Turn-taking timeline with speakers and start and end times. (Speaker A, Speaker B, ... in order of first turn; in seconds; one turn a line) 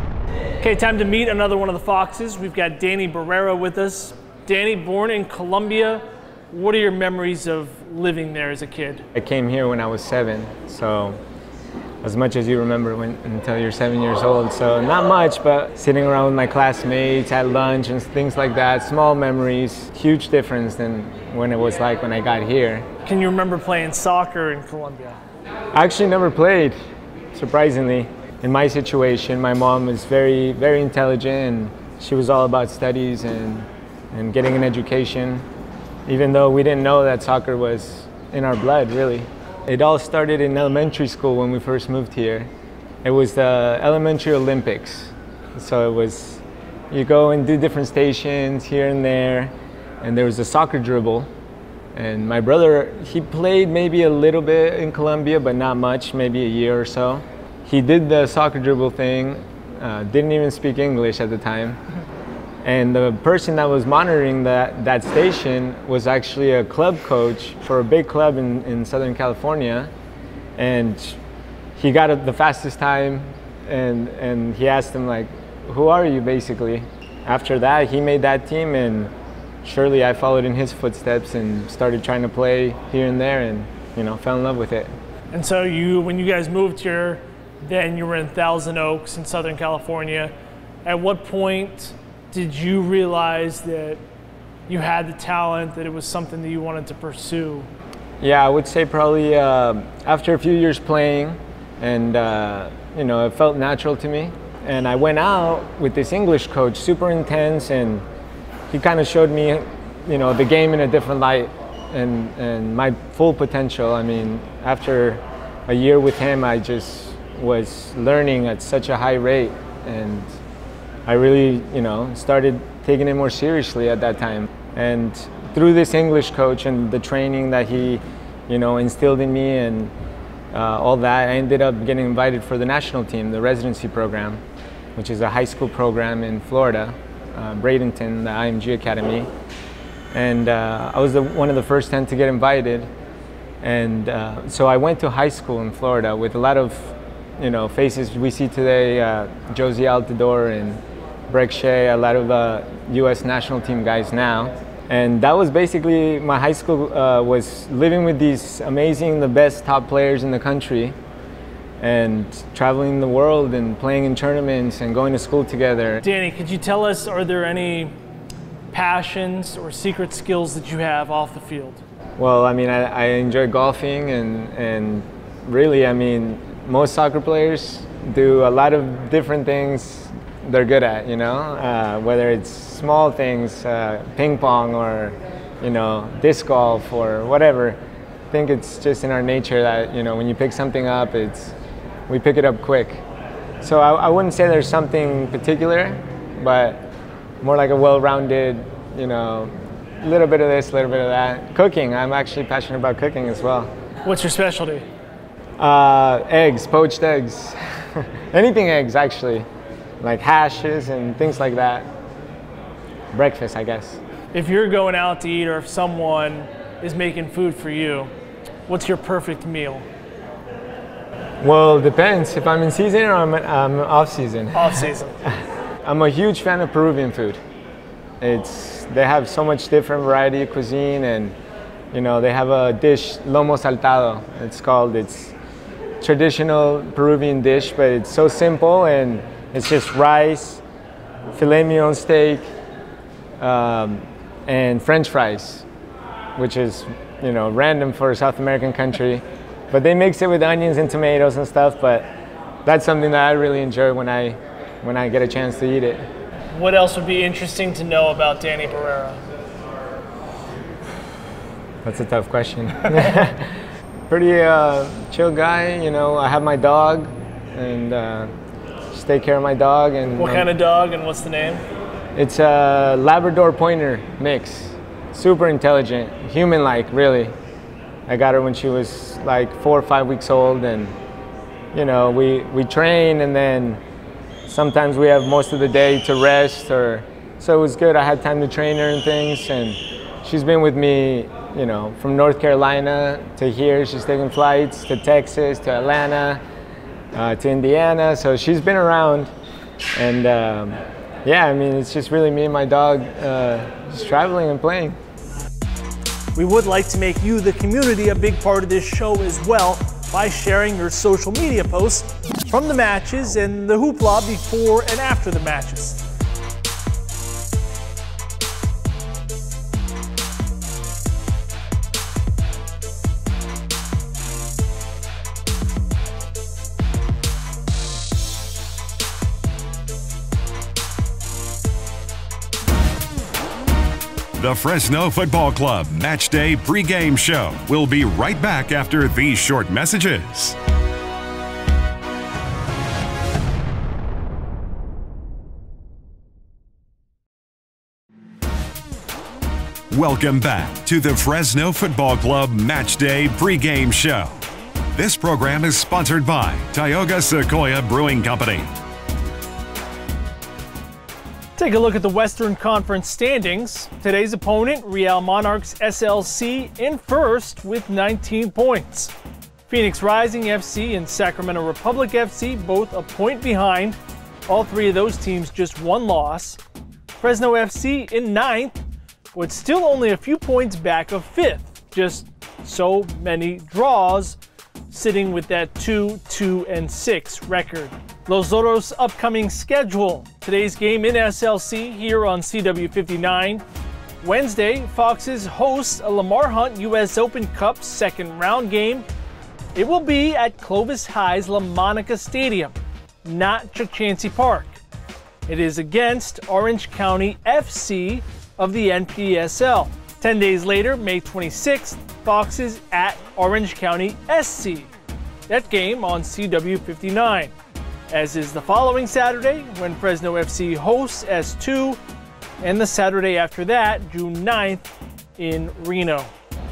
Speaker A: 0.6-9.1
Speaker B: 9.1-11.2
Speaker B: 12.0-22.9
Speaker A: 23.1-25.2
Speaker B: 25.7-26.8
Speaker B: 27.3-35.5
Speaker B: 36.1-42.5
Speaker B: 43.0-51.3
Speaker B: 52.0-61.8
Speaker B: 62.6-69.9
Speaker B: 70.6-71.2
Speaker B: 71.8-79.1
Speaker B: 79.6-84.9
Speaker A: 85.3-90.3
Speaker A: 90.8-94.0
Speaker A: 94.7-97.7
Speaker B: 98.2-108.0
Speaker B: 108.7-120.3
Speaker B: 121.1-129.9
Speaker B: 130.5-134.4
Speaker B: 134.9-139.3
Speaker B: 140.1-142.9
Speaker B: 143.6-160.9
Speaker B: 161.8-166.0
Speaker A: 166.0-167.9
Speaker A: 168.7-171.8
Speaker B: 172.2-187.8
Speaker B: 188.3-191.6
Speaker B: 192.1-193.0
Speaker B: 193.6-196.9
Speaker B: 197.4-203.7
Speaker A: 204.1-204.8
Speaker B: 205.6-209.4
Speaker B: 210.0-211.9
Speaker B: 213.1-214.0
Speaker A: 214.3-218.1
Speaker A: 218.7-219.9
Speaker B: 221.4-224.8
Speaker A: 224.5-225.2
Speaker B: 225.8-227.4
Speaker B: 228.2-231.3
Speaker B: 231.9-235.4
Speaker B: 236.0-240.6
Speaker B: 241.3-242.4
Speaker B: 243.4-245.7
Speaker B: 246.4-252.1
Speaker B: 252.6-256.1
Speaker A: 256.5-259.2
Speaker B: 261.8-263.5
Speaker B: 264.1-268.3
Speaker B: 268.9-270.5
Speaker A: 270.2-271.6
Speaker B: 272.1-277.3
Speaker B: 278.1-280.9
Speaker B: 281.7-283.8
Speaker B: 284.4-296.4
Speaker B: 297.1-299.3
Speaker B: 300.0-305.0
Speaker A: 306.4-316.0
Speaker C: 334.4-340.6
Speaker C: 349.9-354.4
Speaker C: 354.9-358.7
Speaker A: 361.6-369.1
Speaker A: 369.7-376.6
Speaker A: 377.2-378.8
Speaker A: 379.3-384.4
Speaker A: 384.9-393.6
Speaker A: 394.2-399.1
Speaker A: 399.8-404.8
Speaker A: 405.4-414.9
Speaker A: 415.5-417.5
Speaker A: 418.1-422.0
Speaker A: 422.6-426.3